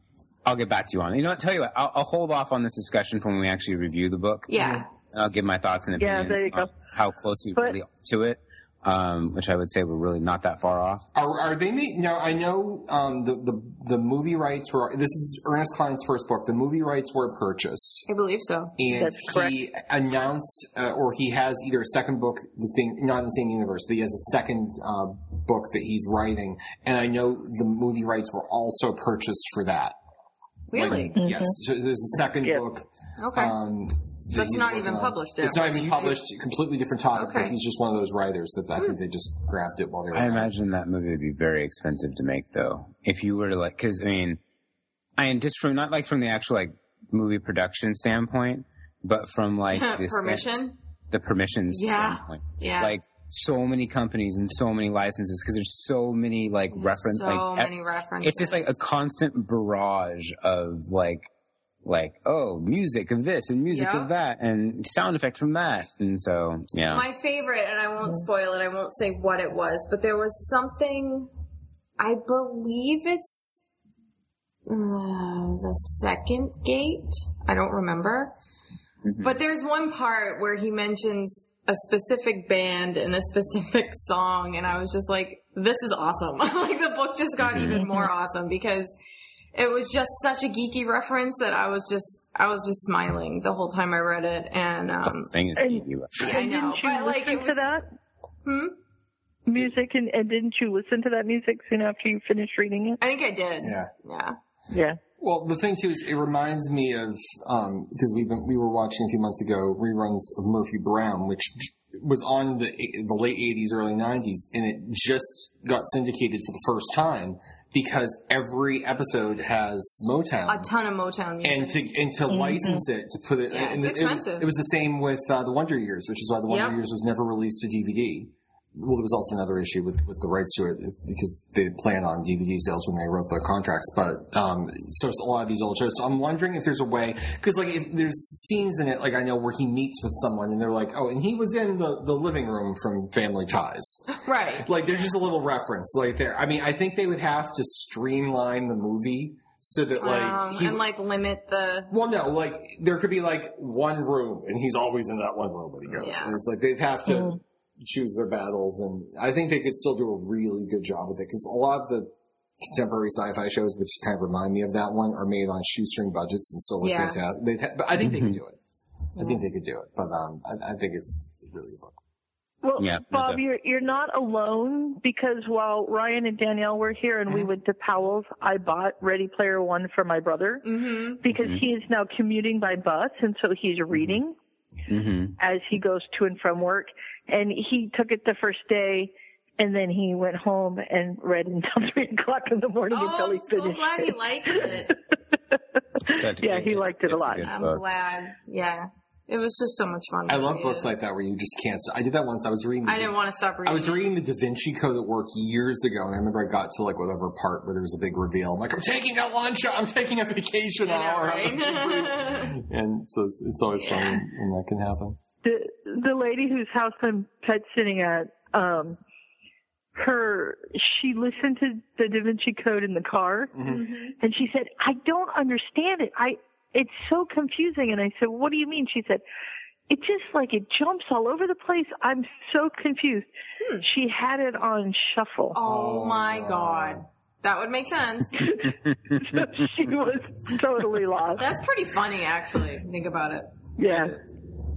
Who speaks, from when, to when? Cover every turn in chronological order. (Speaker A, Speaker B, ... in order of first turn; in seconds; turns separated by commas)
Speaker A: 0.5-11.1, Speaker B: 4.5-4.9, Speaker C: 4.6-4.8, Speaker D: 6.0-6.7, Speaker C: 11.2-18.1, Speaker B: 18.1-18.8, Speaker C: 18.8-30.0, Speaker D: 18.9-19.6, Speaker B: 30.7-31.2, Speaker C: 30.7-40.5, Speaker D: 31.2-31.6, Speaker B: 33.2-33.5, Speaker B: 34.3-36.2, Speaker B: 37.1-37.5, Speaker A: 40.1-44.4, Speaker A: 45.2-61.3, Speaker B: 49.7-50.8, Speaker B: 51.7-52.9, Speaker B: 56.7-58.7, Speaker A: 61.8-67.1, Speaker B: 63.7-64.1, Speaker B: 66.9-71.3, Speaker B: 72.0-73.6, Speaker B: 74.7-78.3, Speaker A: 79.0-79.3, Speaker B: 79.2-89.0, Speaker A: 87.4-87.8, Speaker B: 89.5-95.3, Speaker A: 95.0-96.4, Speaker D: 95.6-97.9, Speaker B: 96.2-97.7, Speaker B: 98.5-98.8, Speaker D: 99.5-103.0, Speaker B: 103.0-104.4, Speaker C: 103.6-103.9, Speaker D: 104.7-105.0, Speaker C: 105.2-120.7, Speaker B: 120.5-121.8, Speaker C: 121.4-150.8, Speaker D: 122.3-122.8, Speaker B: 123.5-124.5, Speaker B: 126.5-126.8, Speaker B: 144.2-144.7, Speaker B: 150.0-151.9, Speaker C: 151.9-168.6, Speaker B: 155.9-156.4, Speaker D: 157.1-157.4, Speaker B: 166.8-167.2, Speaker A: 168.0-168.4, Speaker C: 169.2-172.0, Speaker B: 169.2-169.4, Speaker D: 172.6-180.7, Speaker A: 172.8-173.4, Speaker B: 180.7-181.2, Speaker D: 181.2-184.3, Speaker A: 181.3-181.6, Speaker A: 183.9-184.2, Speaker A: 184.9-185.4, Speaker D: 185.4-194.7, Speaker B: 192.9-195.0, Speaker D: 196.0-197.5, Speaker A: 196.1-197.8, Speaker B: 197.5-200.9, Speaker C: 200.3-215.2, Speaker B: 202.8-204.1, Speaker B: 210.8-212.6, Speaker B: 213.8-214.2, Speaker D: 215.4-219.0, Speaker D: 219.9-223.5, Speaker C: 223.5-223.9, Speaker B: 223.7-224.2, Speaker D: 224.2-229.2, Speaker D: 229.9-233.3, Speaker B: 233.6-233.8, Speaker D: 233.8-235.6, Speaker B: 235.5-238.7, Speaker C: 235.6-237.1, Speaker D: 239.1-241.5, Speaker B: 241.4-243.6, Speaker D: 243.8-244.2